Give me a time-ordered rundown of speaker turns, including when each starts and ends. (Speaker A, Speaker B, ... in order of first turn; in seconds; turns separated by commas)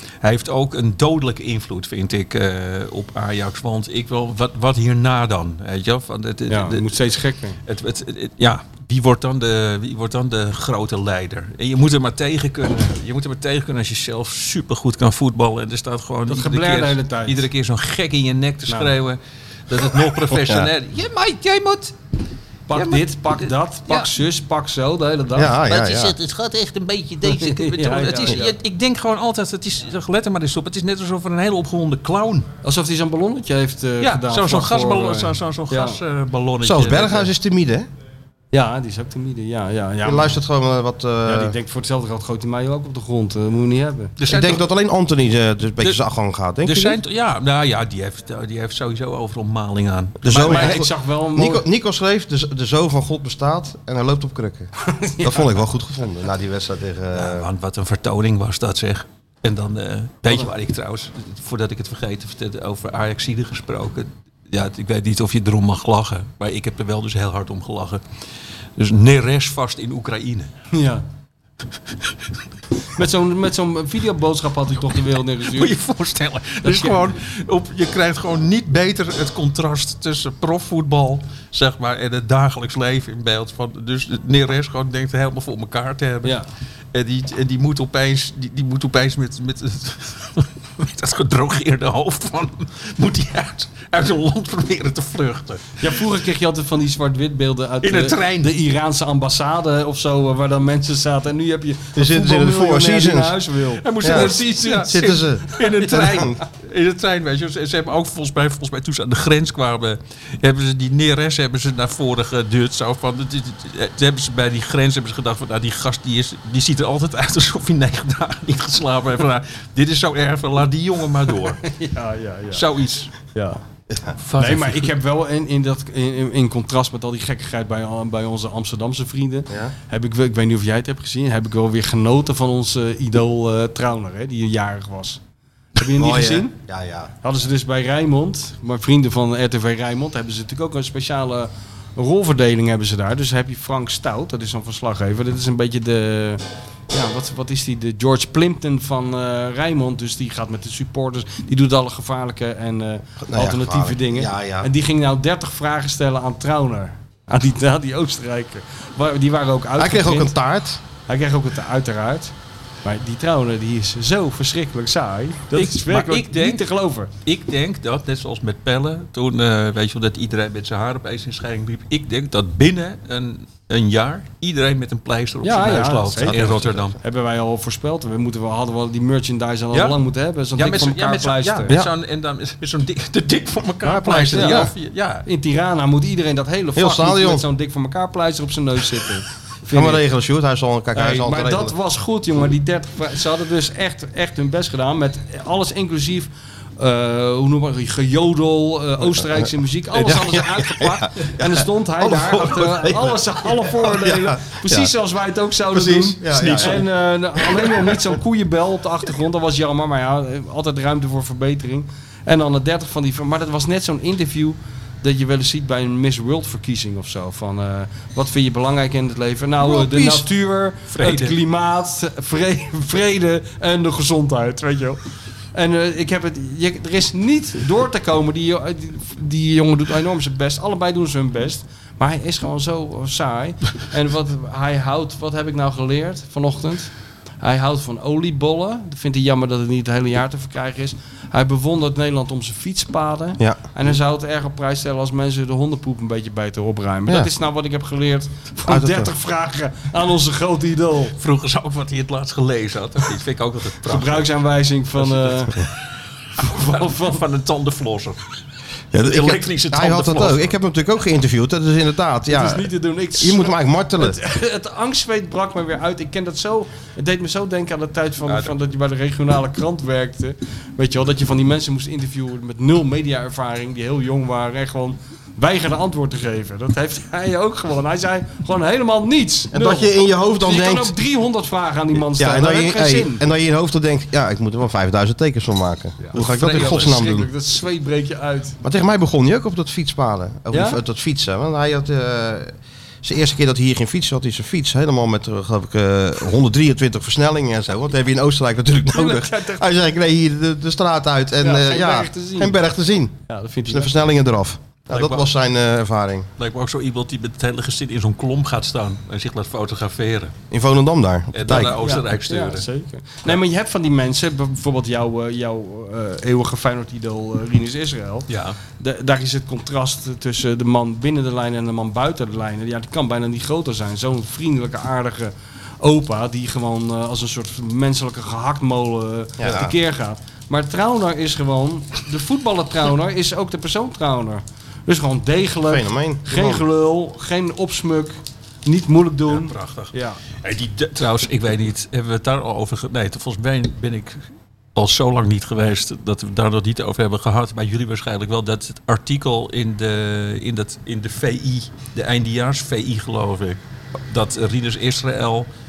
Speaker A: 0.2-7.0, Speaker B: 6.5-7.6, Speaker A: 7.7-22.0, Speaker B: 16.3-17.5, Speaker C: 20.3-20.7, Speaker B: 22.7-25.6, Speaker A: 22.7-24.1, Speaker C: 25.4-26.2, Speaker A: 25.6-32.5, Speaker B: 27.3-28.5, Speaker B: 32.6-36.0, Speaker A: 34.0-37.3, Speaker C: 36.6-37.9, Speaker B: 38.5-40.4, Speaker C: 40.0-41.5, Speaker B: 41.2-44.1, Speaker A: 44.2-44.7, Speaker C: 44.3-47.0, Speaker A: 46.6-50.8, Speaker C: 50.2-57.5, Speaker B: 50.3-51.6, Speaker B: 54.8-55.5, Speaker A: 57.1-68.0, Speaker A: 68.8-70.5, Speaker B: 70.7-71.0, Speaker B: 72.9-75.8, Speaker A: 75.5-86.4, Speaker B: 76.6-77.0, Speaker A: 86.9-95.9, Speaker B: 95.8-105.7, Speaker A: 97.8-98.5, Speaker C: 102.0-103.4, Speaker A: 103.8-121.7, Speaker C: 104.0-106.4, Speaker B: 121.6-122.6, Speaker A: 122.5-123.1, Speaker B: 123.3-123.6, Speaker A: 124.2-124.9, Speaker B: 124.4-135.2, Speaker B: 135.8-136.5, Speaker C: 135.9-137.1, Speaker B: 137.2-160.3, Speaker C: 153.2-154.7, Speaker C: 159.8-160.8, Speaker B: 161.1-162.3, Speaker B: 162.8-167.1, Speaker A: 165.5-166.6, Speaker A: 167.2-177.0, Speaker B: 175.4-181.7, Speaker C: 176.2-176.9, Speaker A: 179.7-180.0, Speaker A: 180.6-185.3, Speaker C: 183.9-184.7, Speaker B: 183.9-184.7, Speaker B: 185.2-190.0, Speaker C: 186.8-187.4, Speaker C: 189.7-191.8, Speaker B: 190.9-225.0, Speaker C: 200.0-204.9, Speaker C: 205.7-206.8, Speaker A: 206.3-206.8, Speaker A: 220.9-221.4, Speaker B: 225.5-251.2, Speaker C: 248.7-249.1, Speaker A: 251.2-254.2, Speaker B: 253.9-255.6, Speaker A: 255.0-255.8, Speaker A: 256.4-258.2, Speaker B: 256.4-257.2, Speaker C: 258.9-264.2, Speaker A: 259.0-260.5, Speaker B: 262.3-283.2, Speaker C: 279.5-280.9, Speaker C: 282.0-287.3, Speaker B: 286.0-288.6, Speaker A: 286.2-286.9, Speaker C: 288.6-303.1, Speaker B: 290.5-290.8, Speaker B: 298.9-299.6, Speaker B: 301.4-302.6, Speaker B: 303.3-304.0, Speaker C: 303.7-306.3, Speaker A: 304.9-305.3, Speaker A: 306.4-310.4, Speaker C: 310.5-311.8, Speaker A: 311.3-312.7, Speaker B: 311.5-318.3, Speaker A: 318.3-318.6, Speaker B: 318.8-340.2, Speaker C: 329.4-329.7, Speaker C: 335.7-336.6, Speaker A: 339.3-344.2, Speaker A: 344.8-355.5